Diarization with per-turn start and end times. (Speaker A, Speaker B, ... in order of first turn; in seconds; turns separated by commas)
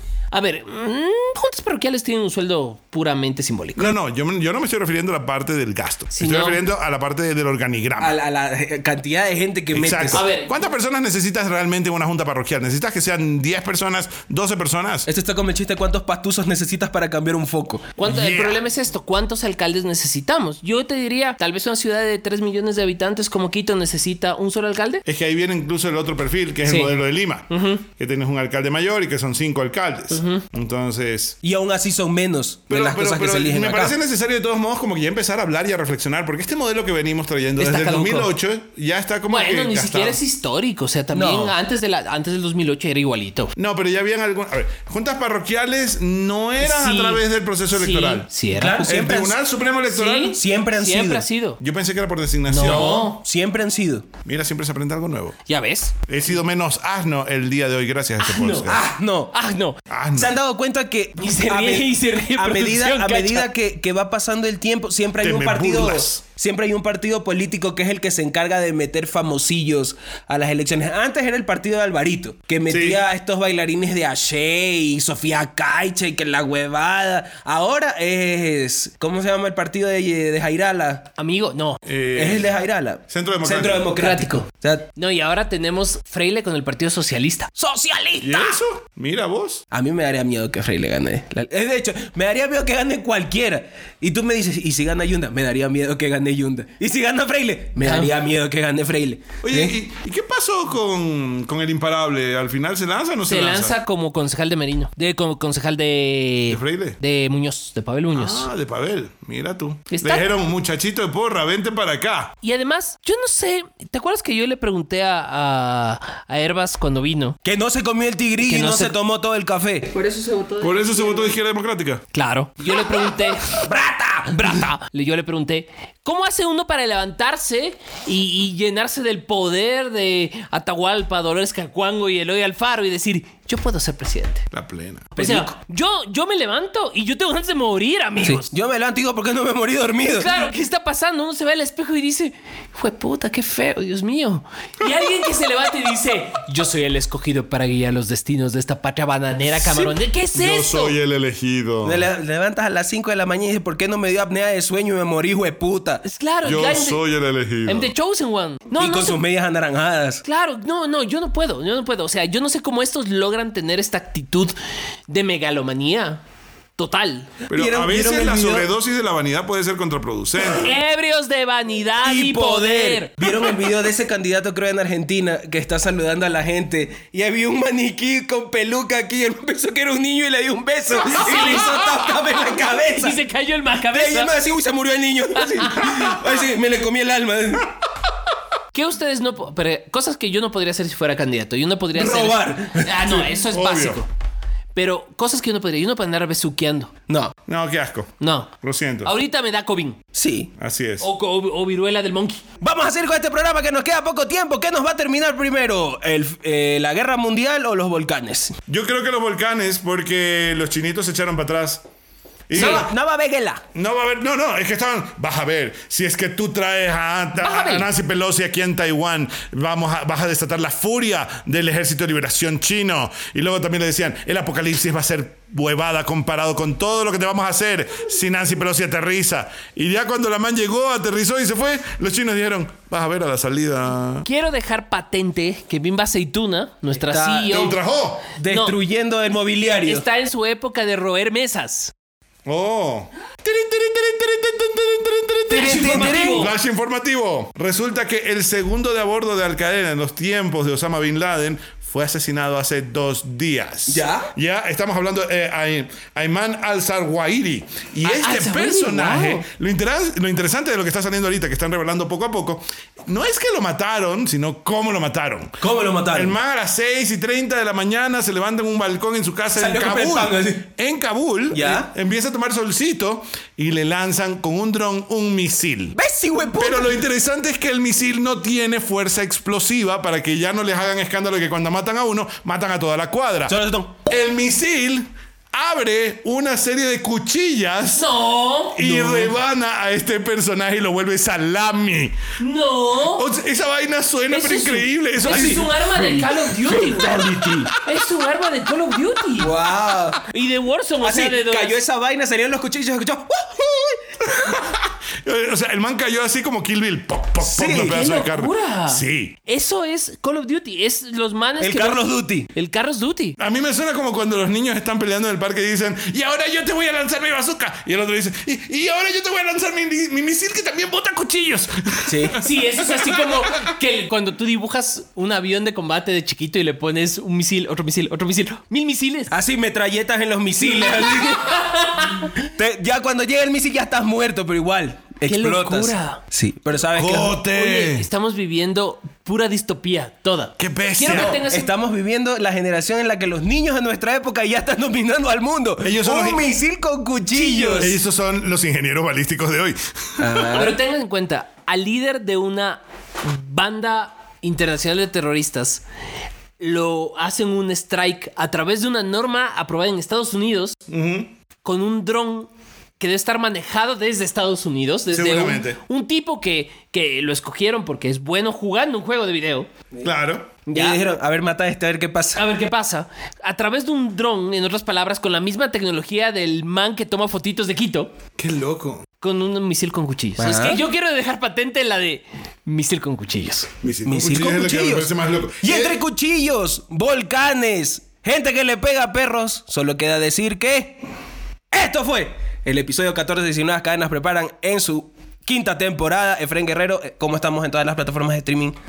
Speaker A: 0.3-3.9, Speaker B: 3.8-8.2, Speaker A: 6.1-6.6, Speaker C: 8.0-10.3, Speaker B: 9.7-15.1, Speaker A: 10.1-10.5, Speaker C: 15.1-17.9, Speaker A: 17.9-25.0, Speaker B: 18.1-18.6, Speaker B: 25.1-31.4, Speaker A: 26.6-26.9, Speaker A: 27.5-27.8, Speaker A: 30.1-30.4, Speaker C: 31.4-33.9, Speaker B: 32.7-40.2, Speaker A: 37.6-38.3, Speaker A: 39.3-43.5, Speaker C: 41.1-41.5, Speaker B: 43.6-48.3, Speaker A: 46.6-48.9, Speaker C: 48.5-49.4, Speaker B: 48.9-50.3, Speaker A: 49.9-51.6, Speaker C: 50.2-51.2, Speaker B: 51.6-53.1, Speaker A: 52.5-53.2, Speaker C: 52.6-54.1, Speaker B: 54.2-55.4, Speaker A: 55.5-55.9, Speaker B: 56.1-58.9, Speaker A: 58.2-58.8, Speaker C: 58.7-59.4, Speaker A: 59.3-59.8, Speaker B: 59.9-60.3, Speaker C: 60.1-81.1, Speaker A: 61.2-63.5, Speaker B: 65.2-66.2, Speaker B: 72.7-73.0, Speaker A: 81.2-81.8, Speaker B: 81.8-82.5, Speaker C: 82.1-84.9, Speaker B: 83.1-83.9, Speaker A: 84.0-84.4, Speaker A: 85.0-87.5, Speaker C: 87.6-88.6, Speaker B: 88.2-89.6, Speaker C: 89.7-99.7, Speaker A: 97.8-98.1, Speaker B: 99.4-103.8, Speaker A: 103.3-108.5, Speaker B: 106.5-107.0, Speaker B: 108.1-112.3, Speaker A: 109.9-110.3, Speaker A: 112.4-117.4, Speaker C: 117.4-120.7, Speaker A: 118.4-118.9, Speaker B: 120.6-122.0, Speaker A: 122.1-123.6, Speaker C: 123.5-124.6, Speaker A: 124.3-134.4, Speaker B: 134.5-135.1, Speaker C: 135.2-135.5, Speaker A: 135.2-138.5, Speaker C: 138.2-140.4, Speaker A: 140.1-151.0, Speaker B: 150.3-152.1, Speaker C: 151.8-156.0, Speaker A: 156.0-157.0, Speaker B: 156.4-157.9, Speaker A: 157.7-159.2, Speaker C: 158.8-160.2, Speaker A: 160.2-164.5, Speaker A: 165.1-166.2, Speaker A: 166.8-167.3, Speaker B: 167.5-170.7, Speaker C: 167.5-168.7, Speaker A: 170.5-173.3, Speaker C: 172.0-183.2, Speaker A: 181.1-181.8, Speaker A: 182.9-184.3, Speaker C: 183.9-187.7, Speaker A: 185.5-185.9, Speaker A: 188.7-194.1, Speaker C: 191.9-193.4, Speaker B: 193.5-194.0, Speaker A: 194.7-196.9, Speaker C: 197.1-197.3, Speaker B: 197.5-199.1, Speaker A: 198.2-198.5, Speaker A: 199.0-200.0, Speaker C: 200.1-200.5, Speaker B: 200.6-201.1, Speaker A: 201.0-202.4, Speaker C: 202.6-208.6, Speaker B: 208.7-211.8, Speaker B: 212.5-212.9, Speaker C: 212.5-213.6, Speaker A: 212.5-212.9, Speaker B: 213.7-234.3, Speaker A: 217.4-217.9, Speaker A: 234.2-237.8, Speaker C: 237.0-237.7, Speaker B: 237.5-238.3, Speaker C: 238.4-240.1, Speaker A: 238.5-238.7, Speaker A: 239.8-241.9, Speaker B: 242.4-265.6, Speaker A: 245.5-246.5, Speaker C: 245.5-246.5, Speaker C: 253.9-254.3, Speaker A: 258.0-259.4, Speaker C: 265.6-266.4, Speaker B: 266.1-275.9, Speaker C: 269.6-270.7, Speaker C: 271.5-271.9, Speaker C: 275.9-277.0, Speaker B: 276.6-288.1, Speaker C: 283.5-284.0, Speaker A: 287.9-289.3, Speaker B: 288.7-292.2, Speaker A: 292.4-293.3, Speaker B: 293.1-297.6, Speaker A: 294.3-299.5, Speaker C: 295.2-295.6, Speaker C: 299.4-300.2, Speaker A: 300.3-301.8, Speaker C: 301.0-304.5, Speaker B: 304.4-309.4, Speaker C: 307.4-308.0, Speaker A: 307.8-313.4, Speaker C: 311.6-312.5, Speaker B: 313.4-323.7, Speaker C: 322.1-322.4, Speaker A: 322.4-329.4, Speaker C: 329.3-331.6, Speaker A: 330.6-332.4, Speaker C: 332.4-337.4, Speaker A: 335.2-336.2, Speaker B: 336.9-338.1, Speaker A: 337.5-341.7, Speaker B: 340.6-341.4, Speaker C: 341.1-348.0, Speaker B: 345.8-346.4, Speaker A: 347.3-347.9, Speaker B: 347.8-350.6, Speaker C: 350.2-350.8, Speaker A: 350.5-355.8, Speaker A: 356.6-360.8, Speaker B: 360.9-361.3, Speaker A: 361.6-369.7, Speaker B: 365.1-365.8, Speaker B: 370.0-370.5, Speaker A: 370.7-371.0, Speaker C: 370.7-372.4, Speaker A: 372.4-378.1, Speaker B: 378.4-379.1, Speaker A: 379.2-383.7, Speaker C: 380.4-380.8, Speaker B: 383.8-386.0, Speaker C: 384.1-391.0, Speaker C: 391.7-398.8